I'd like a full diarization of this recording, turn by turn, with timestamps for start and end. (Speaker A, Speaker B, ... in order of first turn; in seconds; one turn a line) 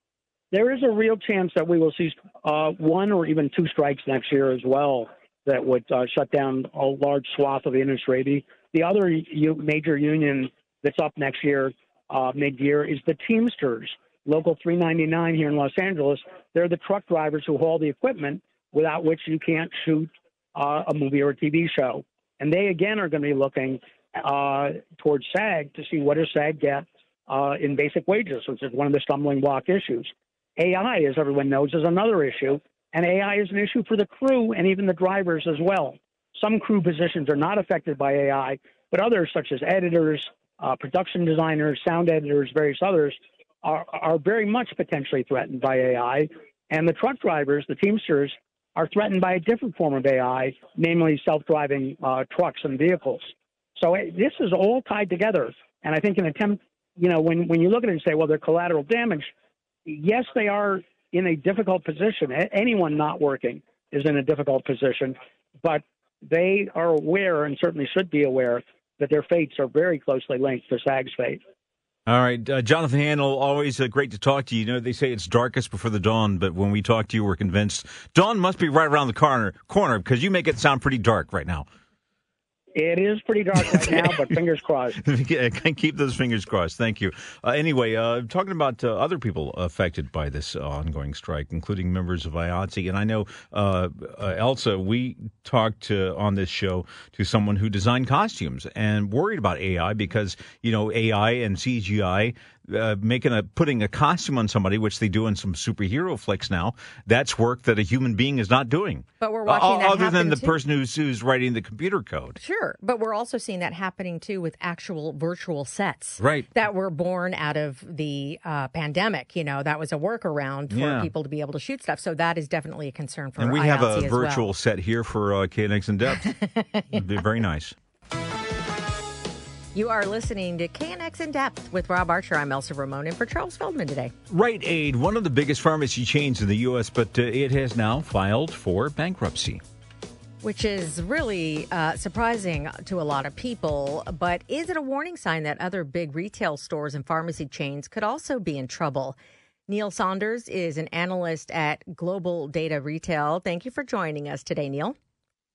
Speaker A: 0.5-59.3
Speaker A: 59.9-71.4
Speaker B: 72.0-81.7
Speaker A: 82.7-85.0
Speaker B: 85.0-112.4
Speaker C: 109.2-110.5
Speaker C: 112.4-124.5
Speaker B: 116.2-116.5
Speaker B: 120.7-121.1
Speaker B: 123.4-126.4
Speaker C: 126.4-126.8
Speaker B: 126.9-127.7
Speaker C: 129.7-134.1
Speaker B: 134.3-139.6
Speaker C: 140.4-149.2
Speaker C: 149.7-154.9